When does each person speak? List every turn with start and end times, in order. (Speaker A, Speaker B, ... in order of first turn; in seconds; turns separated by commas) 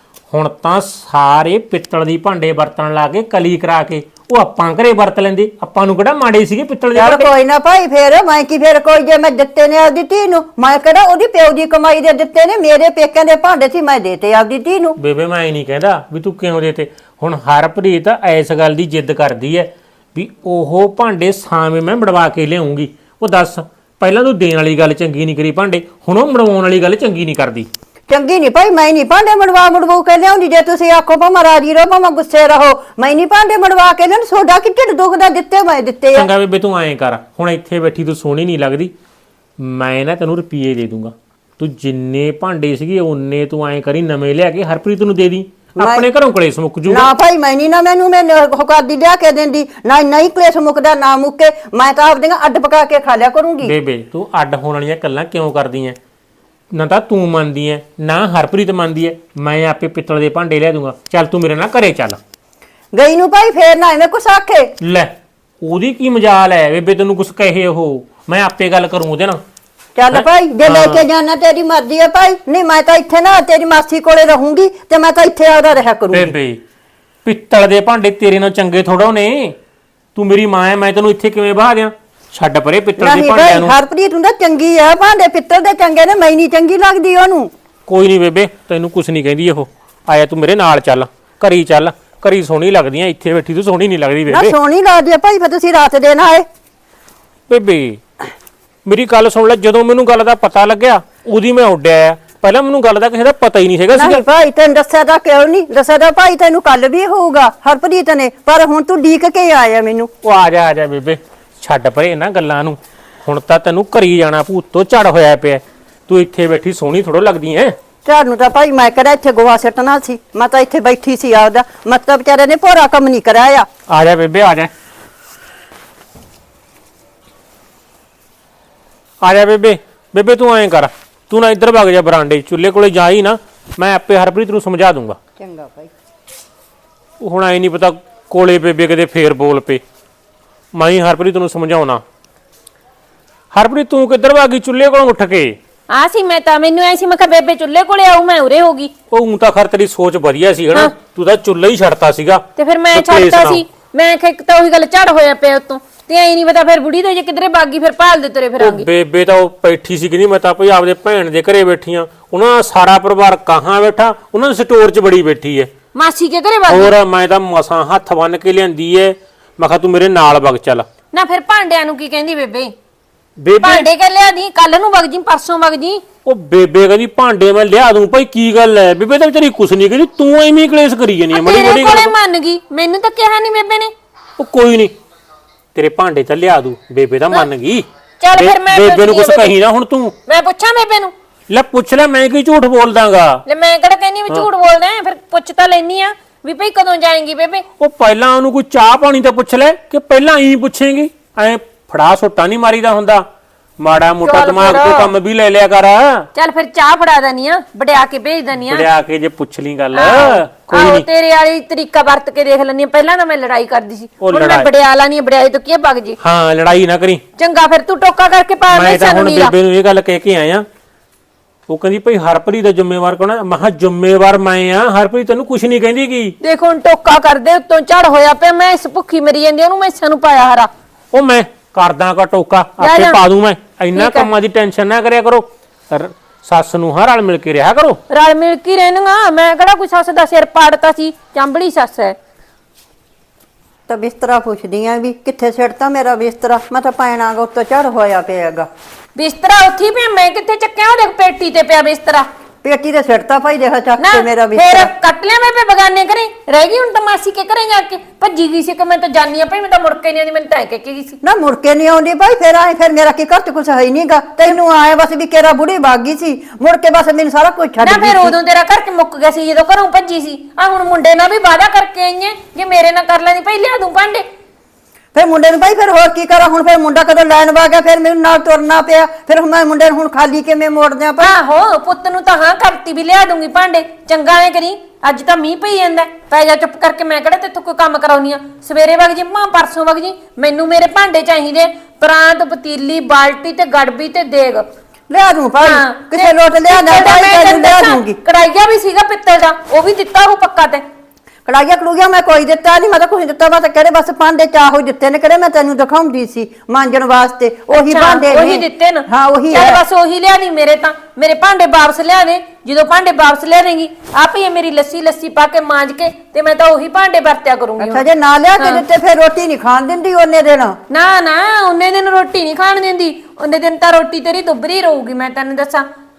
Speaker A: 0.3-7.3, Speaker B: 6.9-15.0, Speaker A: 15.0-27.7, Speaker B: 28.1-36.3, Speaker A: 36.1-38.9, Speaker A: 39.6-47.1, Speaker B: 45.8-46.0, Speaker B: 46.9-53.7, Speaker A: 53.6-56.0, Speaker A: 56.7-62.2, Speaker B: 62.9-64.7, Speaker A: 64.8-69.4, Speaker B: 70.0-76.3, Speaker A: 70.1-71.0, Speaker A: 76.1-76.6, Speaker A: 77.2-79.5, Speaker A: 80.2-83.7, Speaker B: 83.0-87.5, Speaker A: 87.9-94.5, Speaker B: 94.3-96.5, Speaker A: 97.5-98.0, Speaker A: 98.8-104.2, Speaker B: 103.9-110.1, Speaker A: 110.2-117.8, Speaker B: 118.0-123.7, Speaker A: 123.9-124.7, Speaker A: 129.2-135.2, Speaker B: 135.4-135.9, Speaker A: 137.2-139.8, Speaker A: 140.7-142.0, Speaker A: 143.5-145.6, Speaker C: 145.9-148.9, Speaker A: 149.1-153.6, Speaker C: 152.6-158.9, Speaker A: 158.6-165.7, Speaker C: 165.9-166.9, Speaker A: 166.7-170.9, Speaker C: 171.1-172.7, Speaker A: 173.4-173.9, Speaker C: 173.6-176.0, Speaker A: 176.2-182.1, Speaker C: 181.3-183.9, Speaker A: 184.4-184.9, Speaker A: 185.7-190.1, Speaker C: 188.2-189.5, Speaker C: 190.2-191.1, Speaker A: 191.5-193.4, Speaker C: 193.4-197.6, Speaker A: 197.8-203.2, Speaker A: 203.8-206.3, Speaker C: 204.2-205.1, Speaker C: 206.3-208.9, Speaker A: 208.5-211.1, Speaker C: 209.9-216.2, Speaker A: 214.2-214.7, Speaker A: 216.2-217.2, Speaker C: 217.4-219.5, Speaker A: 218.7-220.6, Speaker A: 221.7-226.3, Speaker C: 226.4-230.7, Speaker A: 231.1-238.0, Speaker C: 232.8-233.2, Speaker C: 233.9-234.3, Speaker C: 238.1-242.2, Speaker B: 243.9-248.7, Speaker C: 249.2-252.2, Speaker B: 252.6-254.9, Speaker C: 254.0-261.2, Speaker B: 261.2-268.3, Speaker C: 267.8-274.2, Speaker B: 275.1-281.3, Speaker C: 281.2-294.6, Speaker B: 295.1-298.2, Speaker C: 295.6-300.8, Speaker B: 301.5-309.8, Speaker C: 307.7-318.0, Speaker B: 317.8-320.8, Speaker C: 320.9-325.9